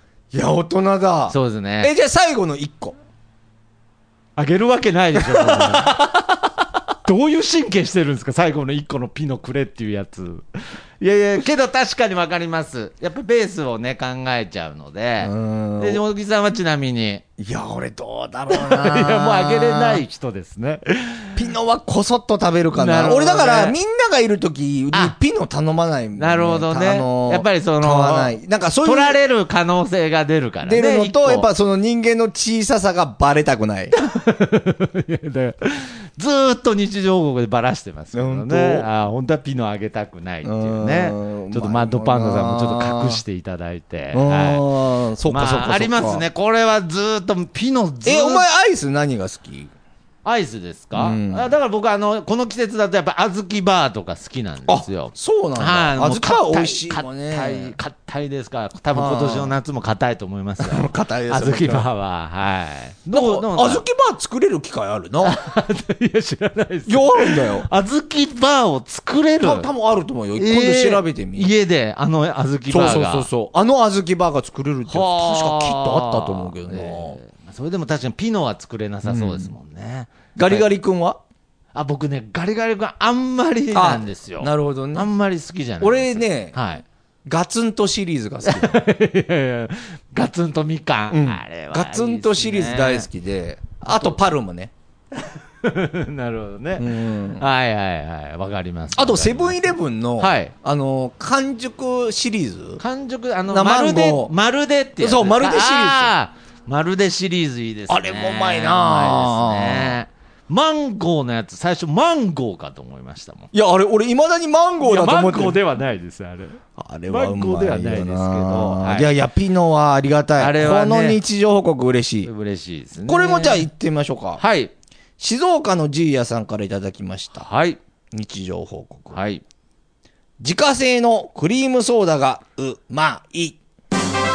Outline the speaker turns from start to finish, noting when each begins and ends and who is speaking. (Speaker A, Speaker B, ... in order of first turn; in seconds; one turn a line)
Speaker A: 0.3-3.0
Speaker B: 1.3-1.9
Speaker B: 4.4-6.4
Speaker A: 5.2-5.9
Speaker B: 7.0-10.4
Speaker B: 11.0-17.2
Speaker A: 15.2-16.0
Speaker A: 17.4-20.0
Speaker B: 18.5-21.3
Speaker A: 21.4-29.2
Speaker B: 22.7-23.8
Speaker B: 26.2-31.5
Speaker A: 30.6-33.9
Speaker B: 33.9-44.7
Speaker A: 38.1-38.9
Speaker A: 40.4-43.2
Speaker A: 44.1-46.2
Speaker B: 45.2-48.5
Speaker A: 48.0-49.7
Speaker B: 50.2-63.8
Speaker A: 50.9-51.5
Speaker A: 54.7-57.7
Speaker A: 58.9-59.5
Speaker A: 60.6-61.9
Speaker A: 63.1-65.4
Speaker B: 65.2-69.7
Speaker A: 66.9-67.7
Speaker A: 69.4-71.5
Speaker B: 70.4-73.3
Speaker A: 72.7-77.2
Speaker B: 74.9-80.7
Speaker A: 79.0-79.5
Speaker A: 80.3-81.2
Speaker B: 81.7-86.8
Speaker A: 83.7-85.1
Speaker A: 85.8-86.5
Speaker A: 87.2-88.8
Speaker B: 88.4-93.1
Speaker A: 91.1-94.7
Speaker B: 93.8-94.2
Speaker B: 95.2-100.5
Speaker A: 96.8-97.5
Speaker A: 98.9-102.8
Speaker B: 102.8-113.5
Speaker A: 103.5-104.3
Speaker A: 105.0-106.1
Speaker A: 107.9-110.0
Speaker A: 113.5-115.6
Speaker B: 114.8-119.1
Speaker A: 116.8-122.3
Speaker B: 120.4-121.2
Speaker B: 122.2-123.7
Speaker A: 123.0-124.4
Speaker B: 124.4-124.7
Speaker A: 125.2-127.5
Speaker B: 127.4-127.8
Speaker A: 128.1-129.2
Speaker B: 129.1-129.4
Speaker A: 130.4-133.6